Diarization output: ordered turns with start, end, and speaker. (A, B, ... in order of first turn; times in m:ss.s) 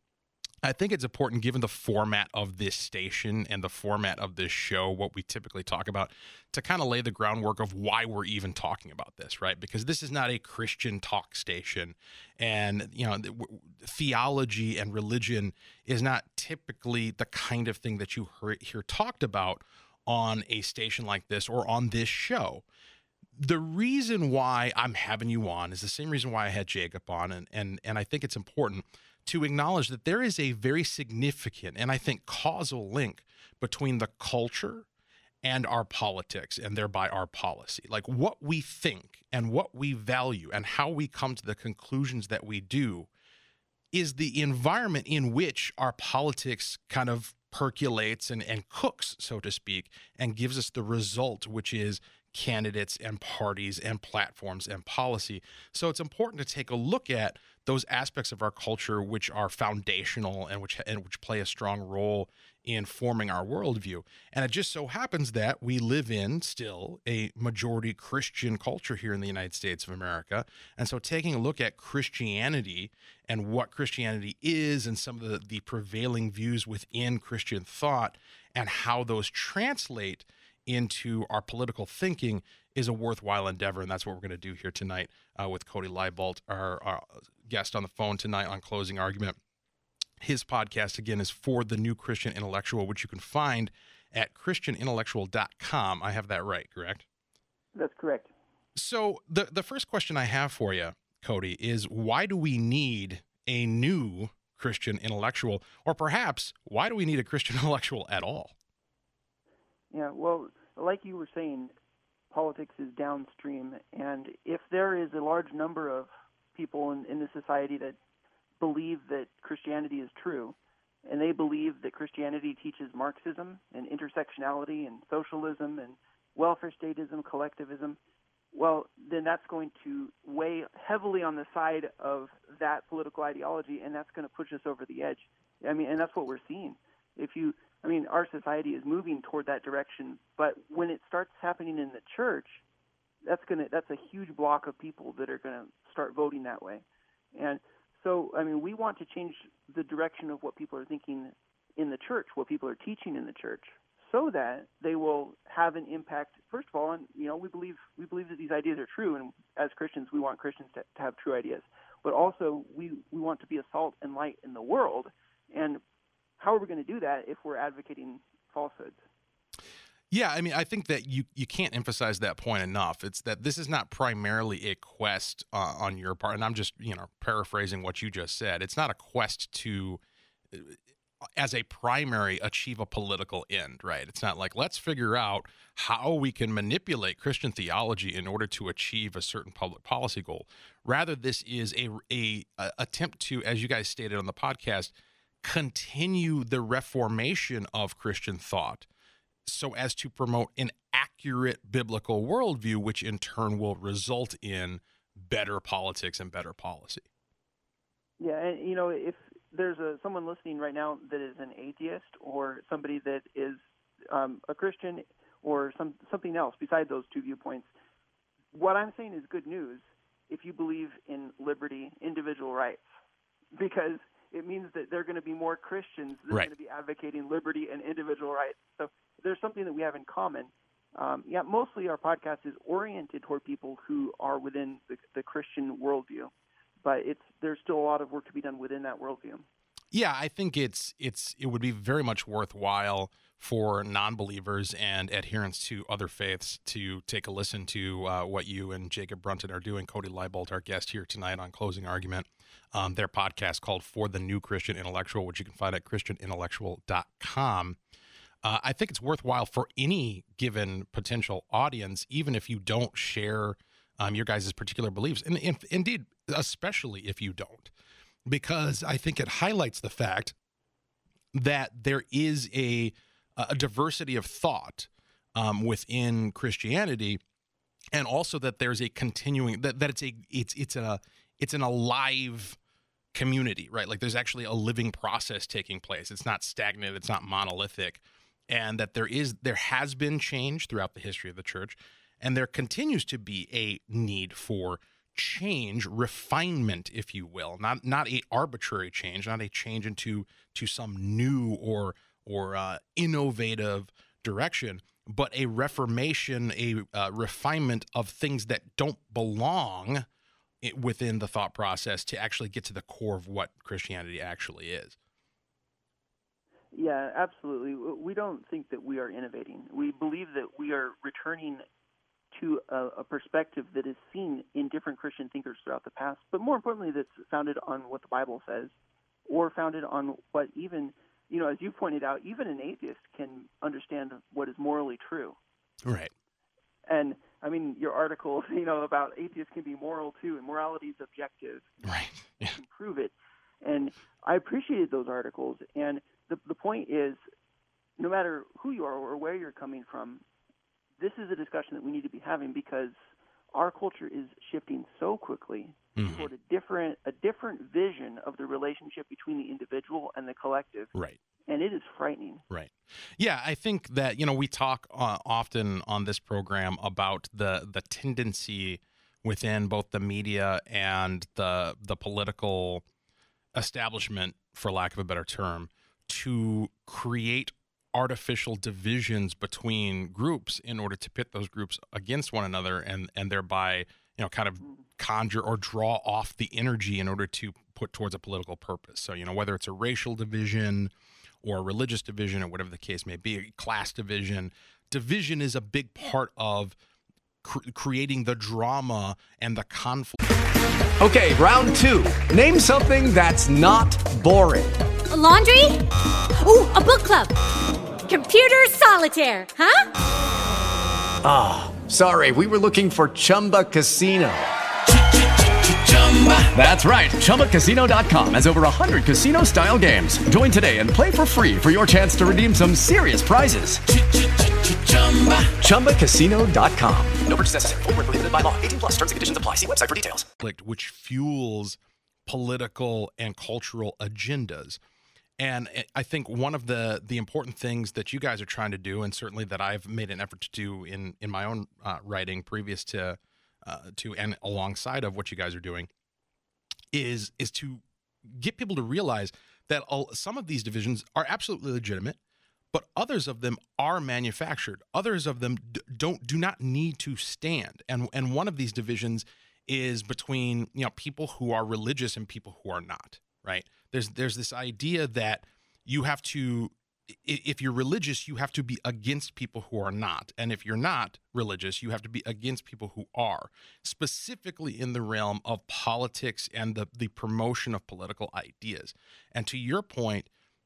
0:00.6-0:22.6 A
0:23.4-0:34.9 A
0:35.4-0:43.1 A
0:43.9-1:29.4 A
1:30.2-1:37.0 A
1:37.8-1:38.3 B
1:38.8-1:48.5 A
1:49.9-1:51.7 B
1:52.3-1:58.0 B
1:58.6-2:00.5 B
2:01.0-2:08.0 B
2:08.5-2:22.6 B
2:23.2-2:45.8 B
2:46.4-2:49.0 B
2:50.1-3:00.0 A
3:00.5-3:00.8 A
3:01.4-3:18.8 A
3:19.5-3:27.0 A
3:28.2-3:37.7 B
3:38.5-3:42.8 B
3:43.5-3:59.5 B
3:59.9-4:17.8 A
4:18.4-4:27.7 A
4:28.2-4:30.4 A
4:31.3-4:37.2 A
4:37.9-4:42.6 A
4:43.1-5:10.0 A
5:10.6-5:15.0 A
5:16.7-5:21.6 B
5:22.3-5:28.8 B
5:29.3-5:35.4 B
5:35.8-5:36.1 A
5:36.9-5:41.7 B
5:41.8-5:42.6 A
5:42.5-5:47.2 B
5:48.0-5:50.2 B
5:51.0-6:00.9 B
5:56.0-5:56.3 A
6:00.9-6:01.2 A
6:01.5-6:02.4 B
6:02.5-6:12.8 A
6:13.5-6:30.9 A
6:31.4-6:36.8 A
6:37.4-6:40.2 A
6:41.0-6:44.8 C
6:45.1-6:45.8 D
6:46.4-6:47.3 D
6:48.1-6:49.9 D
6:51.2-6:54.5 C
6:56.4-7:03.8 C
7:05.5-7:07.2 C
7:07.2-7:10.3 E
7:10.4-7:14.8 A
7:15.4-7:25.9 A
7:26.9-7:32.2 A
7:32.7-8:00.3 A